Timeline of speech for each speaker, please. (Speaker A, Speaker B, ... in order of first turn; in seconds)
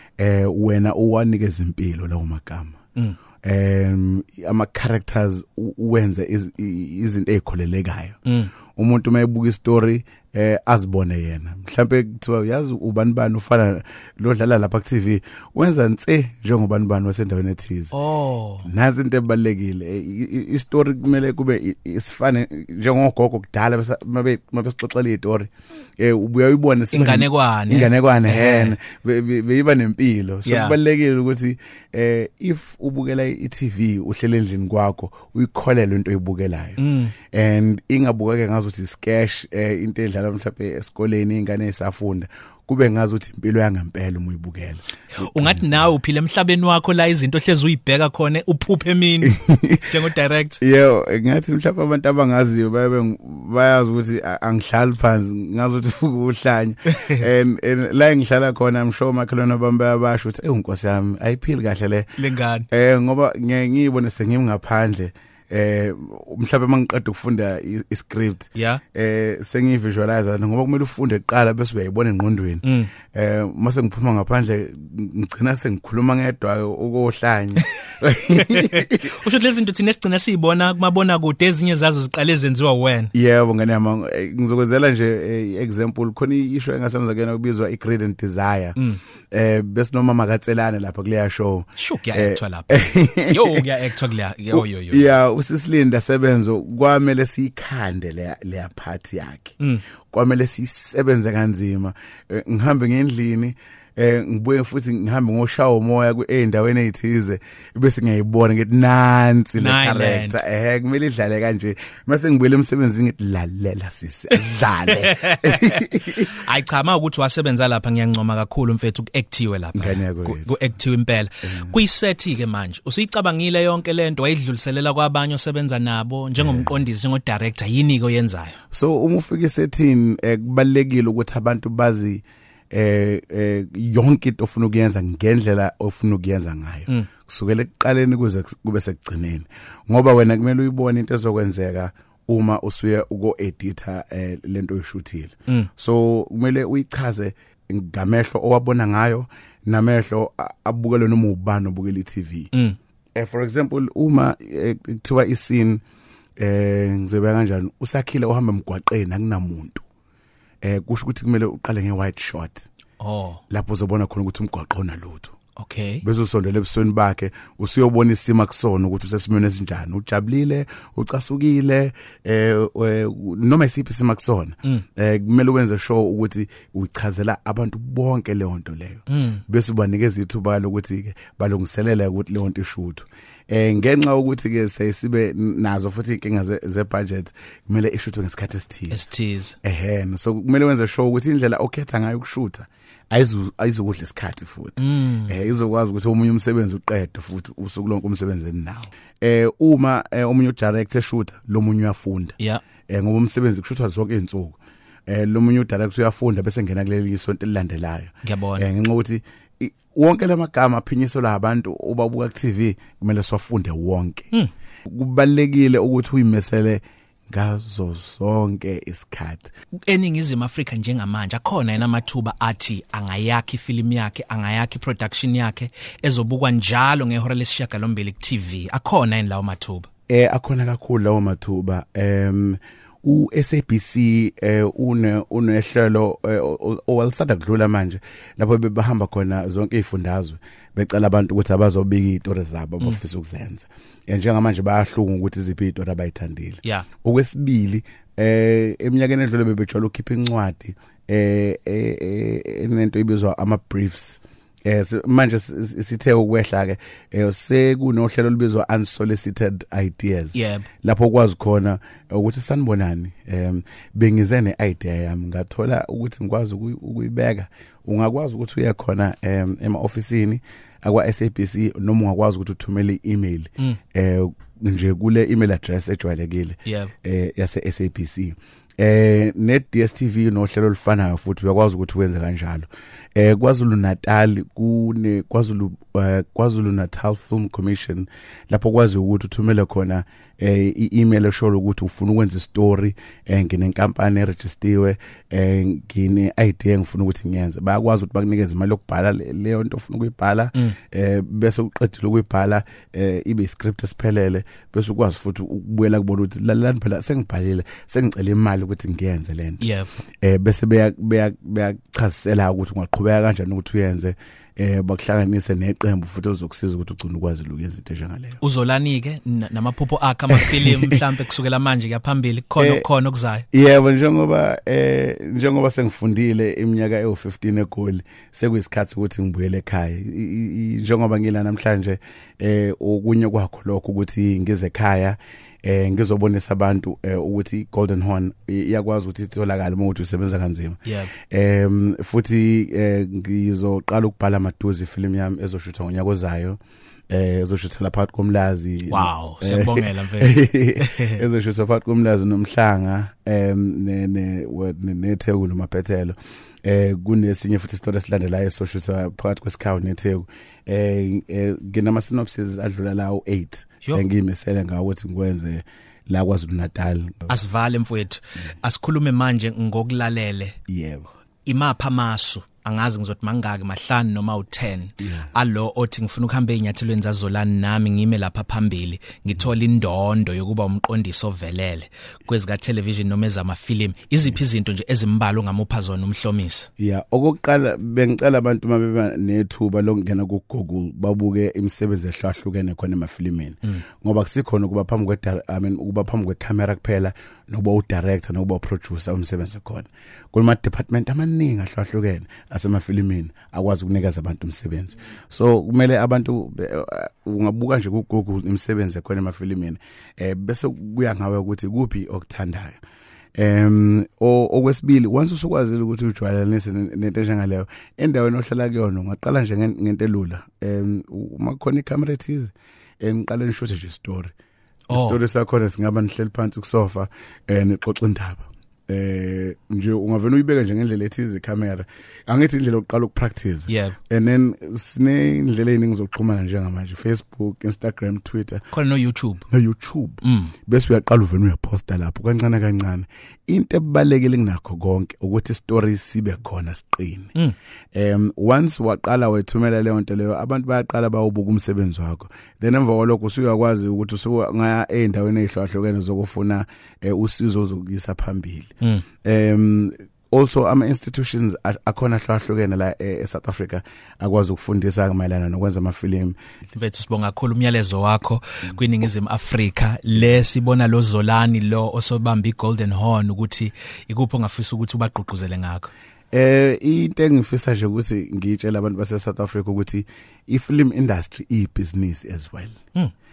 Speaker A: 0.2-2.8, 3.4-8.2, 8.8-17.9, 18.6-36.8, 37.3-45.9, 49.2-49.9, 50.6-62.1, 62.7-79.2, 83.1-88.8, 89.3-93.6, 94.5-99.6, 100.1-116.3, 119.8-120.6, 121.4-121.8, 126.4-126.8, 128.7-152.5, 153.1-155.8, 156.4-159.8, 160.6-162.7, 163.5-165.4, 166.0-189.1, 189.6-202.4, 202.9-214.3, 214.9-219.5, 230.1-309.6, 310.2-318.4, 320.4-321.0, 322.6-322.9, 323.5-340.8, 341.3-367.4, 370.7-371.1, 375.0-375.3, 386.8-412.8, 413.4-424.3, 424.9-438.6, 439.5-447.4, 447.9-458.7, 459.2-466.4, 476.3-482.8
Speaker B: 8.2-8.5, 17.9-18.7, 26.9-28.8, 30.4-30.8, 36.8-37.1, 45.1-50.6, 62.2-62.7, 68.5-68.8, 72.6-72.9, 78.3-83.1, 91.8-95.1, 109.6-110.4, 115.0-128.6, 163.0-163.4, 165.6-166.0, 179.1-179.4, 188.9-189.6, 194.8-195.3, 208.2-208.7, 219.9-229.9, 260.4-260.7, 276.6-276.9, 309.6-309.9, 318.4-323.4, 340.9-341.1, 348.9-351.2, 367.3-370.6, 371.5-386.7, 424.9-425.2, 433.7-434.0, 438.7-439.5, 440.2-440.5, 466.7-475.9